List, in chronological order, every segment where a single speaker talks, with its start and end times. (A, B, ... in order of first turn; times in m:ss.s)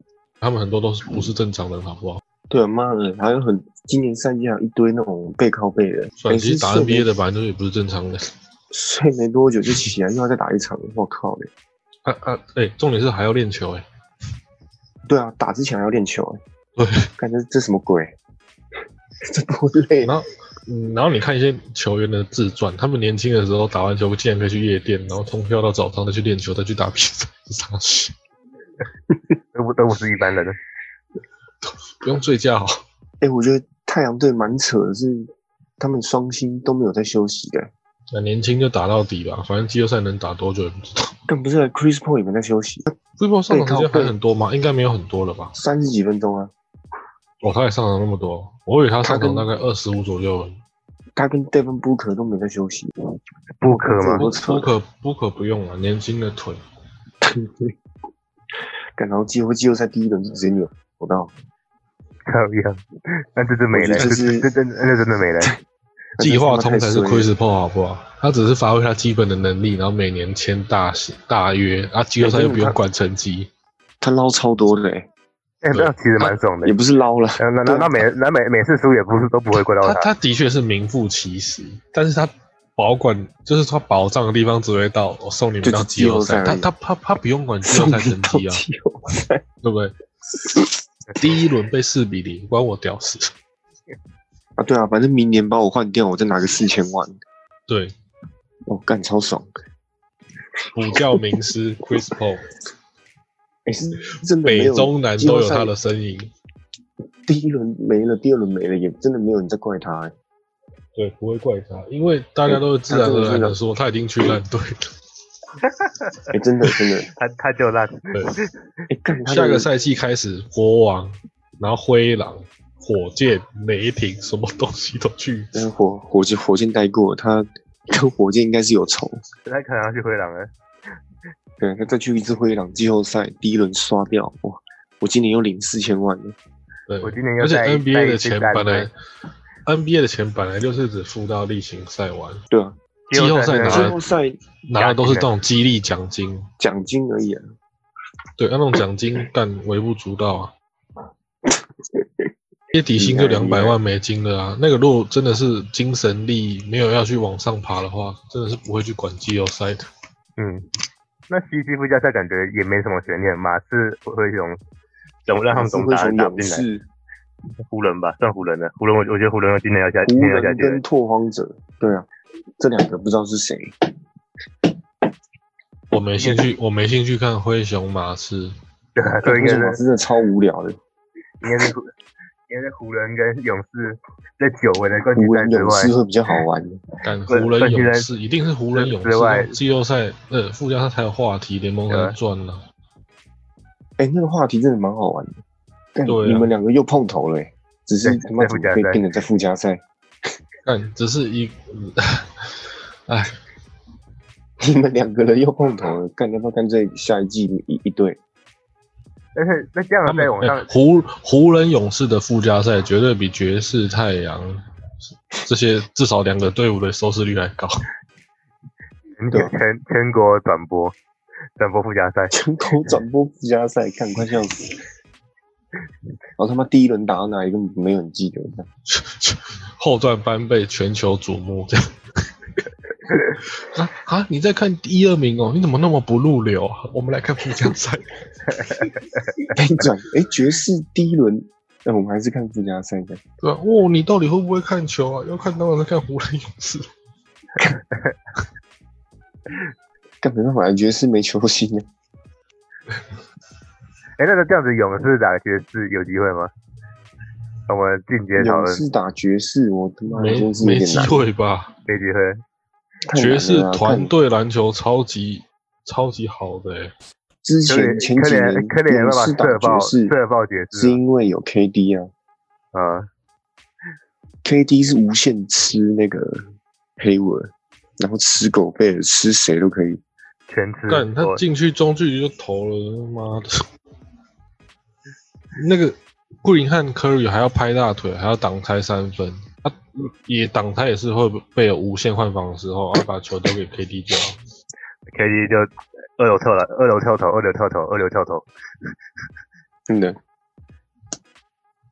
0:00.4-0:02.2 A
0:02.5-0:07.1 B
0:06.2-0:08.3 A
0:08.7-0:11.5 B
0:12.0-0:13.8 A
0:15.1-0:16.4 B
0:16.8-0:17.1 A
0:17.2-0:18.1 B
0:19.2-0:20.1 B
0:20.0-0:28.1 A
0:29.5-0:30.6 C
0:31.6-0:32.8 A
0:33.2-0:37.7 B
0:38.1-0:41.1 A
0:41.3-0:43.0 B
0:43.2-0:45.5 A
0:43.5-0:44.1 B
0:45.6-0:46.5 B
0:47.4-0:50.6 A
0:49.0-0:49.5 B
0:51.2-0:52.9 B
0:53.6-0:54.2 C
0:53.7-0:54.7 B
0:54.2-0:56.6 A
0:57.2-0:57.7 B
0:59.0-1:01.3 B
1:02.3-1:05.5 C
1:03.7-1:04.4 B
1:04.0-1:04.4 A
1:06.2-1:07.3 B
1:06.2-1:13.5 A
1:12.2-1:12.8 B
1:14.0-1:15.1 B
1:15.6-1:16.8 C
1:16.2-1:18.0 B
1:17.4-1:20.1 C
1:19.8-1:28.6 A
1:25.6-1:26.7 B
1:27.6-1:29.4 B
1:29.6-1:29.9 A
1:30.4-1:30.7 B
1:31.2-1:33.3 A
1:34.6-1:37.2 B
1:37.7-1:37.9 A
1:38.7-1:39.5 B
1:40.7-1:42.5 A
1:40.9-1:41.3 B
1:43.7-1:45.7 B
1:44.4-1:46.3 A
1:47.3-1:50.1 B
1:51.0-1:54.9 A
1:52.4-1:53.6 B
1:56.3-1:57.1 B
1:57.2-1:58.5 C
1:58.9-1:59.7 B
1:59.3-2:05.5 A
2:05.5-2:09.2 B
2:09.4-2:10.5 C
2:11.6-2:16.4 B
2:16.9-2:18.9 A
2:17.0-2:18.9 C
2:19.7-2:22.4 A
2:22.5-2:22.8 B
2:23.1-2:24.0 C
2:23.1-2:24.0 A
2:23.6-2:24.4 B
2:24.7-2:26.5 A
2:24.8-2:25.3 C
2:26.6-2:27.4 B
2:28.4-2:30.5 A
2:32.7-2:39.9 A
2:33.0-2:33.8 B
2:40.4-2:40.7 C
2:41.3-2:44.6 C
2:45.3-2:46.7 C
2:45.5-2:46.8 B
2:47.7-2:50.8 C
2:50.0-2:52.1 B
2:52.6-2:53.7 B
2:55.9-2:58.6 A
2:59.0-2:59.8 C
2:59.2-3:00.8 B
3:01.4-3:01.9 C
3:02.5-3:05.9 C
3:05.2-3:06.8 B
3:07.0-3:12.6 A
3:07.3-3:08.1 C
3:08.7-3:09.6 C
3:11.9-3:12.1 C
3:14.0-3:15.4 B
3:16.0-3:19.8 B
3:16.1-3:16.5 A
3:18.0-3:19.0 C
3:20.6-3:23.3 A
3:24.6-3:28.2 B
3:29.4-3:30.7 C
3:30.1-3:34.6 A
3:35.3-3:37.8 A
3:39.2-3:41.0 C
3:41.6-3:42.4 C
3:42.3-3:44.8 B
3:46.4-3:48.7 B
3:48.9-3:51.8 A
3:53.6-3:58.2 A
3:59.5-4:03.2 B
4:03.4-4:06.9 A
4:10.2-4:11.9 B
4:14.2-4:16.5 C
4:17.7-4:18.8 C
4:18.4-4:21.3 B
4:20.1-4:21.7 A
4:21.9-4:22.4 C
4:23.1-4:24.1 B
4:23.1-4:26.9 A
4:27.4-4:30.1 B
4:27.7-4:31.0 C
4:30.8-4:32.1 B
4:32.7-4:33.1 C
4:34.4-4:36.4 B
4:37.0-4:40.0 B
4:40.5-4:41.4 C
4:40.9-4:43.6 A
4:45.6-4:54.4 A
4:55.1-4:58.5 C
4:59.9-5:00.2 B